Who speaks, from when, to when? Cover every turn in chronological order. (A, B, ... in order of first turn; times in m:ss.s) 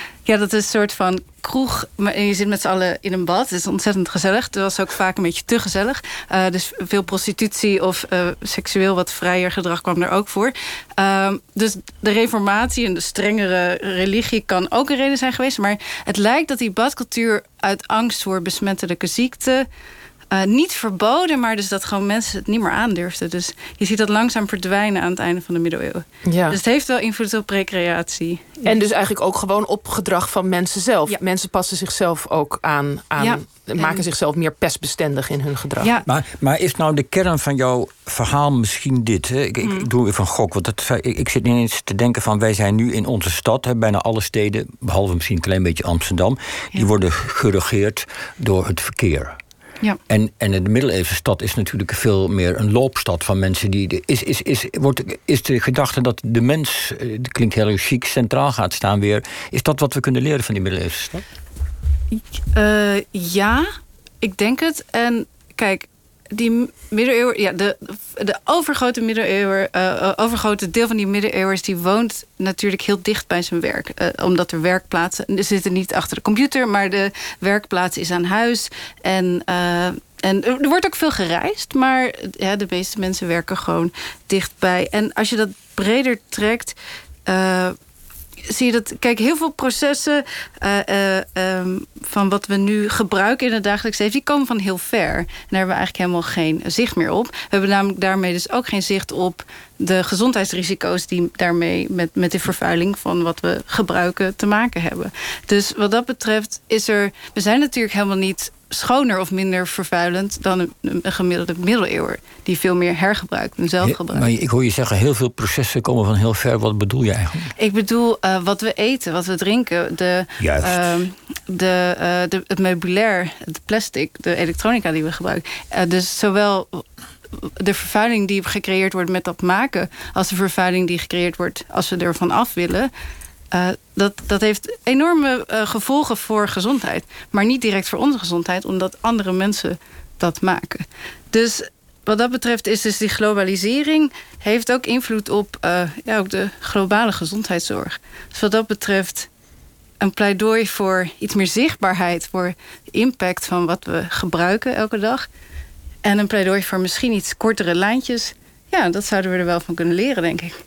0:00.2-0:19.7 A
0:20.3-0:28.8 A
0:26.2-0:26.6 B
0:28.6-0:35.9 B
0:33.2-0:34.0 A
0:35.8-0:36.1 A
0:36.0-0:49.4 C
0:39.6-0:39.9 A
0:50.1-1:01.2 C
1:02.5-1:03.6 A
1:04.2-1:26.8 A
1:27.3-1:27.7 A
1:28.5-1:54.3 A
1:53.8-1:57.5 C
1:57.6-2:12.9 A
2:00.4-2:00.8 C
2:13.5-2:29.3 A
2:30.0-2:35.2 A
2:36.0-2:40.5 A